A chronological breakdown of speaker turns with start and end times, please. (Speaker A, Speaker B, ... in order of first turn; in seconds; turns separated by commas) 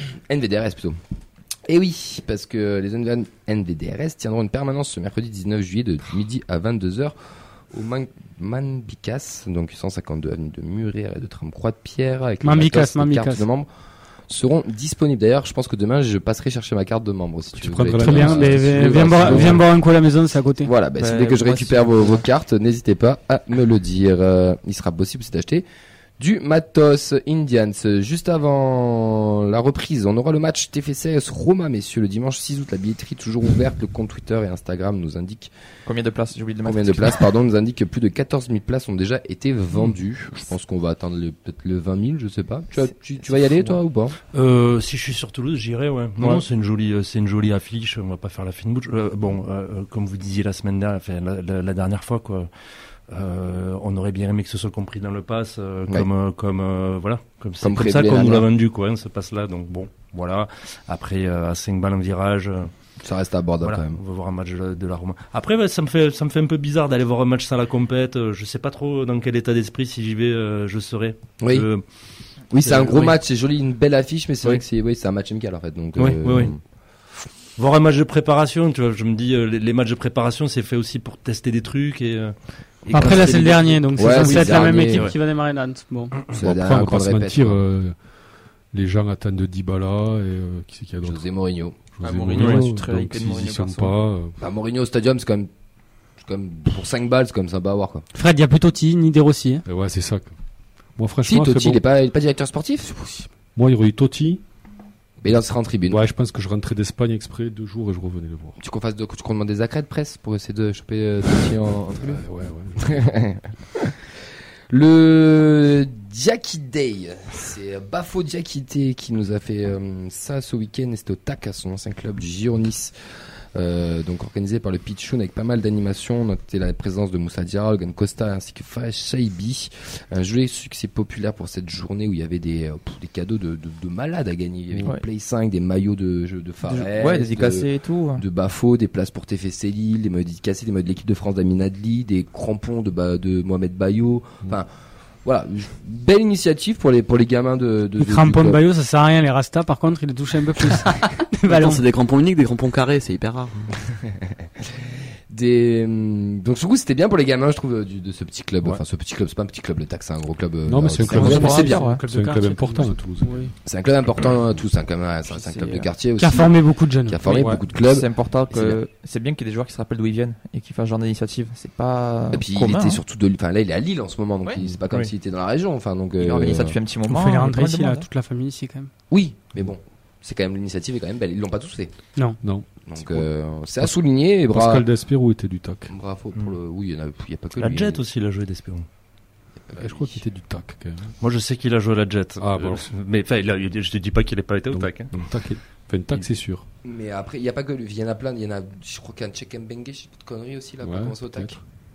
Speaker A: 0.2-1.0, Speaker A: 1.7-7.1, Speaker A: 7.7-13.7, Speaker B: 12.4-13.5, Speaker A: 14.3-19.7, Speaker C: 17.6-19.7, Speaker B: 18.0-20.7, Speaker A: 20.6-25.6, Speaker D: 21.0-22.3, Speaker A: 26.2-35.5, Speaker D: 35.9-37.3, Speaker A: 36.6-44.2, Speaker D: 42.8-43.8, Speaker E: 44.3-52.5, Speaker E: 53.1-62.7, Speaker A: 57.6-58.5, Speaker A: 63.0-64.0, Speaker E: 63.6-71.8, Speaker A: 71.4-71.7, Speaker A: 72.5-76.6, Speaker E: 72.6-73.2, Speaker E: 76.0-76.5, Speaker E: 77.6-82.3, Speaker B: 82.9-86.3, Speaker A: 83.0-83.3, Speaker F: 83.2-84.0, Speaker A: 84.0-85.1, Speaker E: 84.8-85.2, Speaker A: 86.3-87.6, Speaker C: 86.4-88.0, Speaker C: 88.7-91.3, Speaker A: 91.0-91.8, Speaker C: 91.9-94.3, Speaker D: 92.0-94.0, Speaker E: 92.3-92.6, Speaker A: 94.4-95.5, Speaker A: 96.2-98.0, Speaker B: 98.1-99.6, Speaker C: 99.7-100.3, Speaker C: 101.0-101.8, Speaker A: 101.2-103.2, Speaker C: 103.5-104.4, Speaker A: 105.2-106.0, Speaker C: 105.3-108.6, Speaker A: 108.6-112.2, Speaker C: 112.0-113.0, Speaker A: 112.8-113.9, Speaker A: 114.7-122.9, Speaker A: 123.5-144.7, Speaker D: 136.7-138.2, Speaker A: 145.2-148.6, Speaker B: 148.0-151.9, Speaker F: 151.5-153.5, Speaker A: 155.3-161.8, Speaker C: 160.7-163.5, Speaker D: 161.1-162.0, Speaker B: 161.1-163.5, Speaker A: 163.6-168.8, Speaker D: 165.3-165.9, Speaker B: 166.2-167.5, Speaker C: 167.3-167.7, Speaker D: 167.7-173.0, Speaker A: 172.3-176.8, Speaker D: 176.2-178.1, Speaker B: 177.0-178.9, Speaker A: 179.1-181.9, Speaker B: 182.2-182.4, Speaker C: 182.4-183.3, Speaker A: 182.8-184.9, Speaker C: 183.8-185.9, Speaker A: 185.9-188.1, Speaker E: 187.6-188.9, Speaker A: 189.7-190.2, Speaker C: 189.8-191.2, Speaker E: 191.2-195.1, Speaker C: 192.4-192.9, Speaker C: 194.7-196.6, Speaker A: 196.8-201.6, Speaker C: 200.8-201.6